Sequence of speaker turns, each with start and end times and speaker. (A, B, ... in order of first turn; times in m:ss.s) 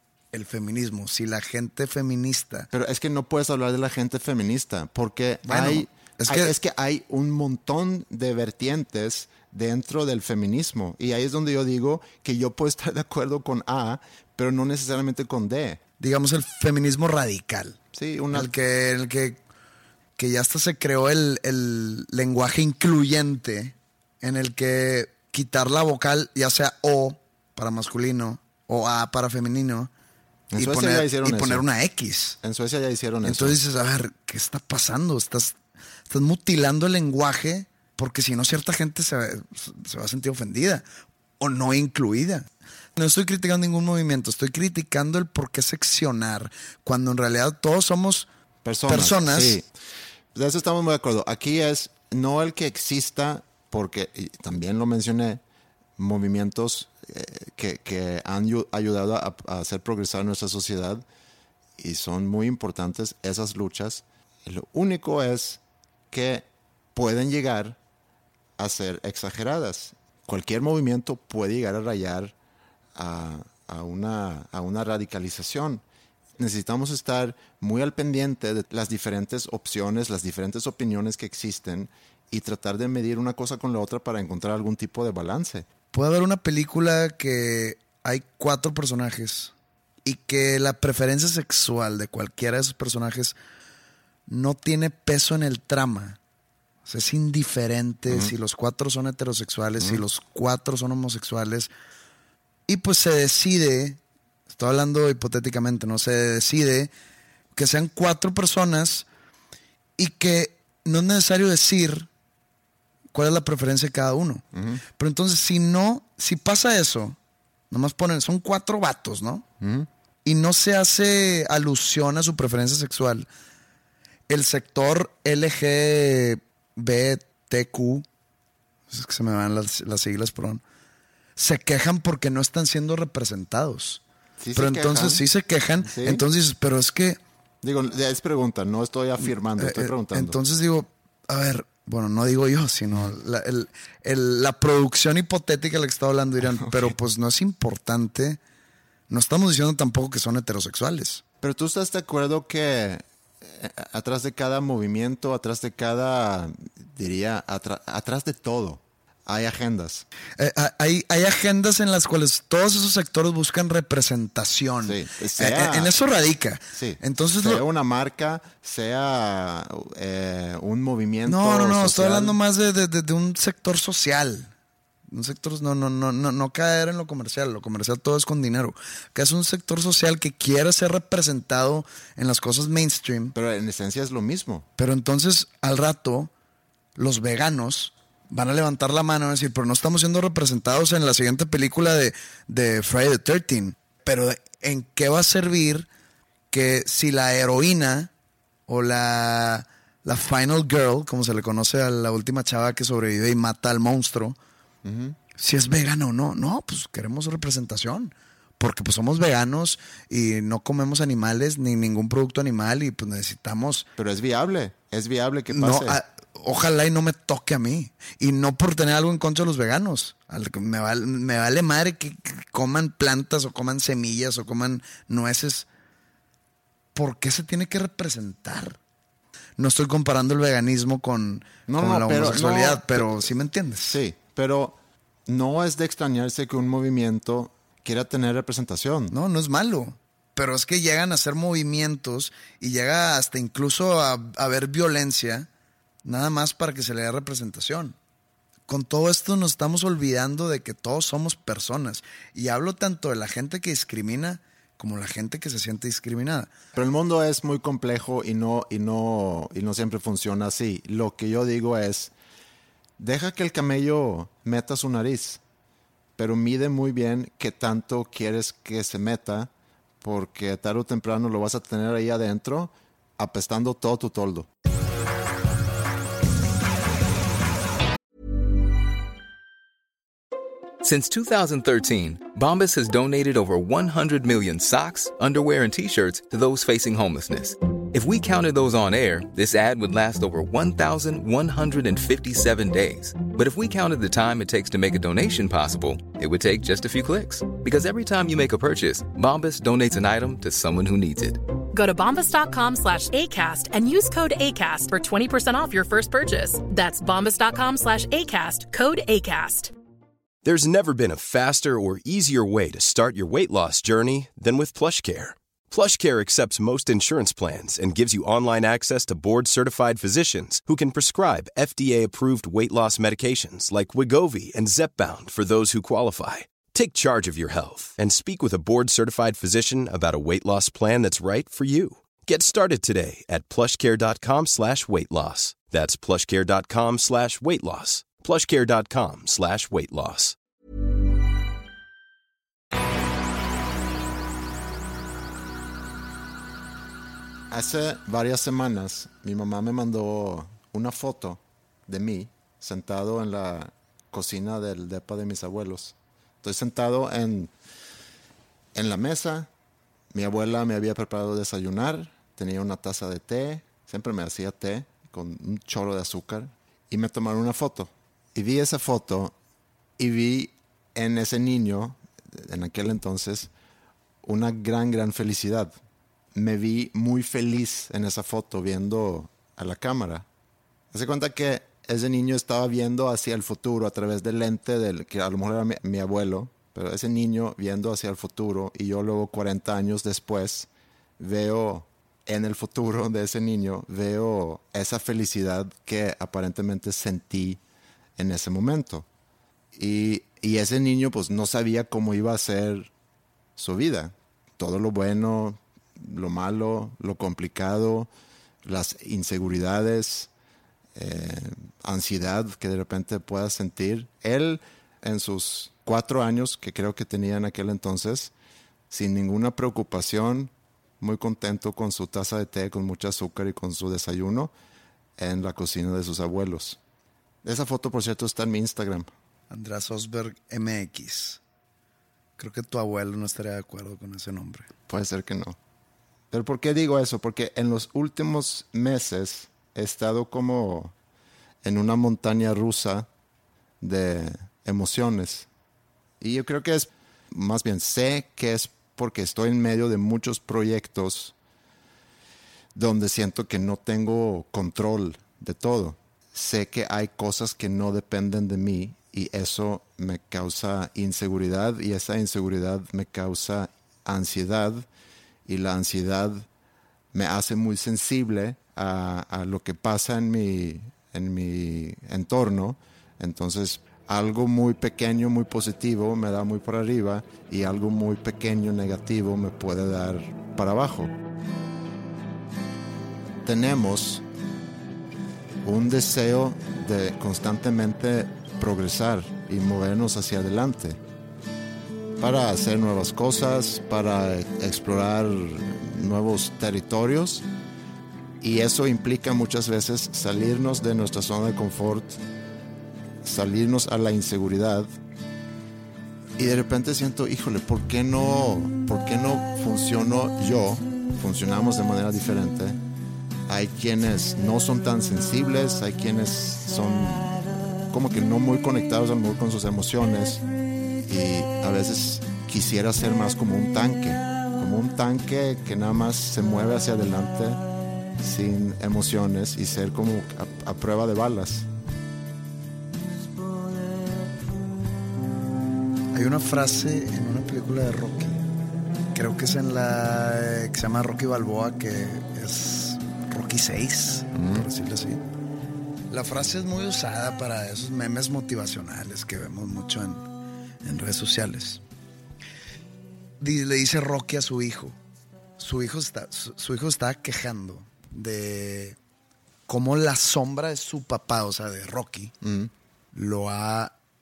0:00.3-0:02.7 A
0:02.7-0:15.8 B
0:05.5-0:06.5 A
0:16.0-0:17.8 A
0:17.9-0:18.5 B
0:18.3-0:19.4 A
0:20.2-0:29.9 A
0:30.5-0:31.6 B
0:30.6-0:32.4 A
0:32.4-0:33.6 B
0:33.2-0:35.6 A
0:36.1-0:40.8 A
0:41.4-0:48.3 A
0:48.6-0:49.7 B
0:48.9-0:49.6 A
0:50.3-0:55.4 B
0:56.0-1:01.0 B
1:01.8-1:07.8 B
1:08.6-1:12.3 B
1:12.9-1:15.8 B
1:16.4-1:25.6 B
1:25.9-1:29.5 A
1:30.0-1:33.4 A
1:34.3-1:36.2 A
1:36.8-1:41.7 A
1:38.1-1:38.3 B
1:42.7-1:44.0 A
1:44.5-1:46.9 A
1:47.5-1:49.1 A
1:50.0-1:52.1 A
1:53.1-1:57.2 A
1:54.5-1:54.8 B
1:57.7-1:59.4 A
1:59.6-1:59.9 B
2:00.2-2:03.3 A
2:04.3-2:08.0 A
2:08.9-2:10.6 A
2:11.4-2:14.0 A
2:14.4-2:15.2 B
2:14.6-2:17.2 A
2:15.8-2:16.2 B
2:17.6-2:20.4 B
2:19.6-2:28.4 A
2:26.4-2:26.9 B
2:29.1-2:31.2 A
2:31.4-2:40.0 B
2:40.4-2:47.6 A
2:44.8-2:45.9 B
2:46.7-2:52.4 B
2:51.2-2:54.5 A
2:55.1-3:03.3 A
3:03.3-3:04.6 B
3:04.8-3:06.3 A
3:07.0-3:15.9 A
3:16.5-3:18.1 A
3:18.7-3:24.4 A
3:24.8-3:25.2 B
3:25.4-3:33.9 A
3:34.0-3:36.0 B
3:35.5-3:45.7 A
3:46.9-3:48.8 A
3:49.6-3:54.0 A
3:51.7-3:53.3 B
3:53.9-3:59.1 B
3:59.1-4:05.5 A
4:06.0-4:08.0 A
4:08.7-4:16.5 A
4:16.7-4:22.1 B
4:23.0-4:25.4 B
4:26.2-4:29.5 B
4:30.0-4:34.5 B
4:40.8-5:01.4 C
5:01.7-5:09.7 D
5:10.4-5:40.4 E
5:47.5-5:57.5 B
5:58.7-5:59.5 B
6:00.1-6:09.3 B
6:10.0-6:13.5 B
6:14.2-6:15.7 B
6:16.3-6:20.2 B
6:20.9-6:37.6 B
6:38.2-6:39.1 B
6:39.7-6:42.9 B
6:43.6-6:48.1 B
6:48.6-6:50.3 B
6:50.9-6:58.3 B
6:58.9-7:04.5 B
7:05.2-7:06.8 B
7:07.4-7:09.1 B
7:09.5-7:11.4 A
7:12.4-7:14.7 A
7:14.9-7:15.6 B
7:16.3-7:20.9 B
7:21.6-7:23.1 B
7:23.8-7:25.5 B
7:26.2-7:31.3 B
7:32.7-7:44.9 B
7:45.4-7:46.5 B
7:47.1-8:01.1 B
8:03.4-8:04.2 B
8:05.6-8:11.0 B
8:12.2-8:17.4 B
8:18.4-8:22.2 B
8:23.2-8:24.9 B
8:26.4-8:32.8 B
8:33.5-8:40.4 B
8:41.0-8:47.6 B
8:48.2-8:51.7 B
8:56.1-8:58.4 A
8:59.1-9:05.2 A
9:04.3-9:04.7 B
9:06.1-9:10.3 A
9:10.8-9:11.8 A
9:13.4-9:15.0 A
9:15.6-9:19.0 A
9:19.7-9:22.3 A
9:22.4-9:22.7 B
9:23.1-9:23.9 A